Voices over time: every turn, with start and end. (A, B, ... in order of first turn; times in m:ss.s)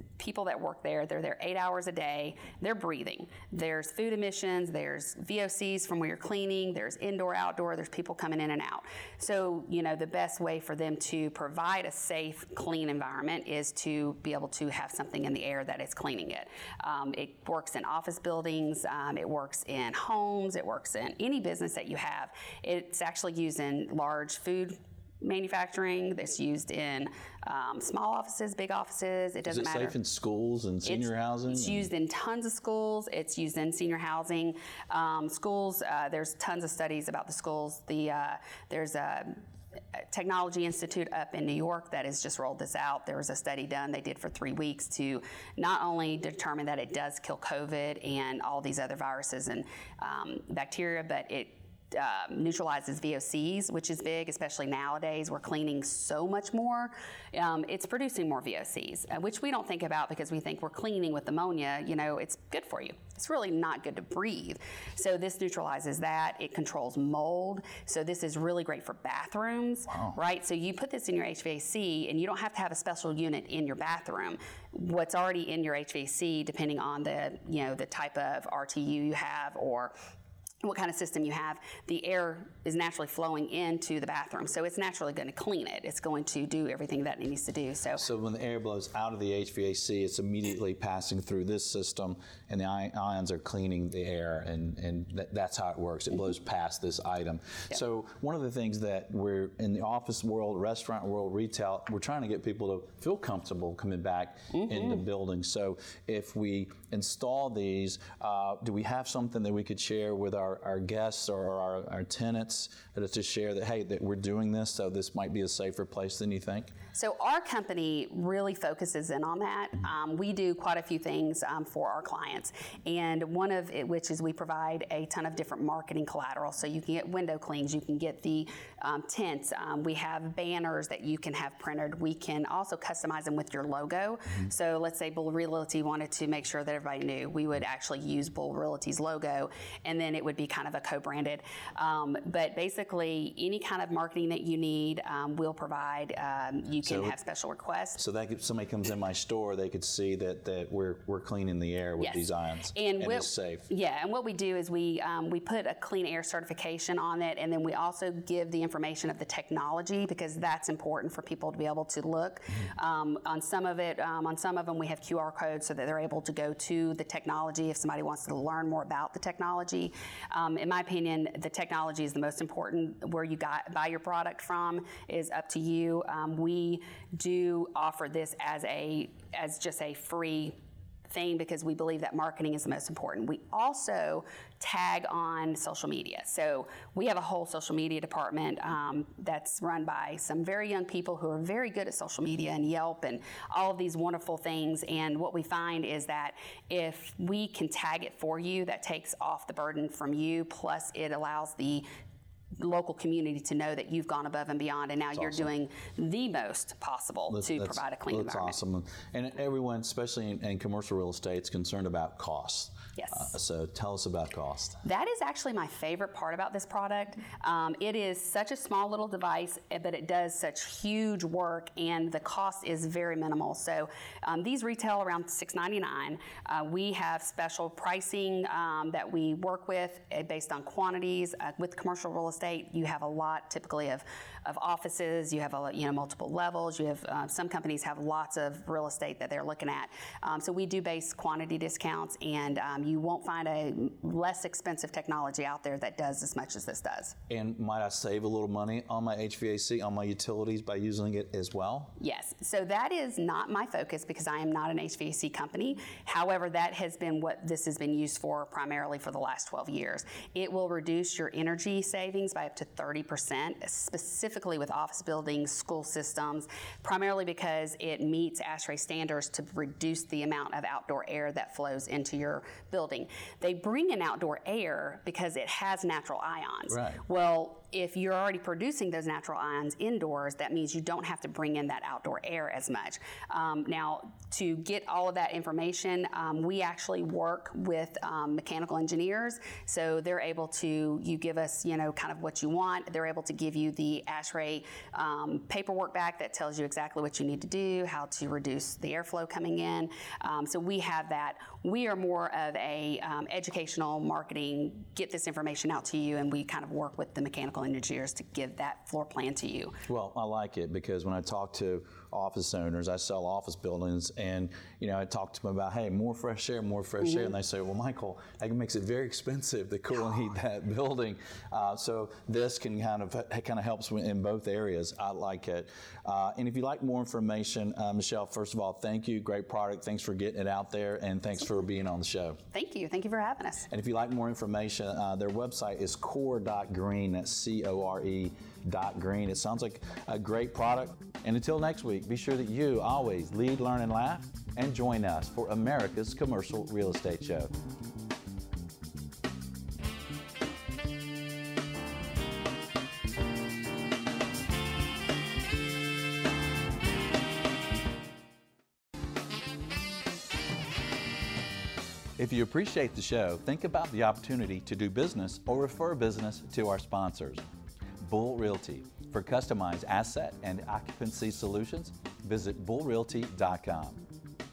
0:00.2-0:29.9 A
0:29.5-0:31.9 B
0:30.8-0:39.4 A
0:39.9-1:19.9 A
1:09.9-1:10.2 B
1:20.6-1:28.0 A
1:28.0-1:56.7 B
1:56.9-2:28.0 A
2:26.8-2:27.1 B
2:28.0-2:33.6 B
2:32.0-3:00.6 A
3:01.1-3:21.8 A
3:22.6-3:28.6 A
3:25.1-3:25.5 B
3:27.3-3:34.8 B
3:33.0-3:33.3 A
3:34.8-4:07.2 A
4:07.3-4:11.9 B
4:12.0-5:09.8 A
4:36.7-4:37.0 B
5:09.9-5:32.4 B
5:32.5-5:33.7 A
5:33.7-5:47.5 B
6:02.2-6:07.4 B
6:08.0-6:14.0 B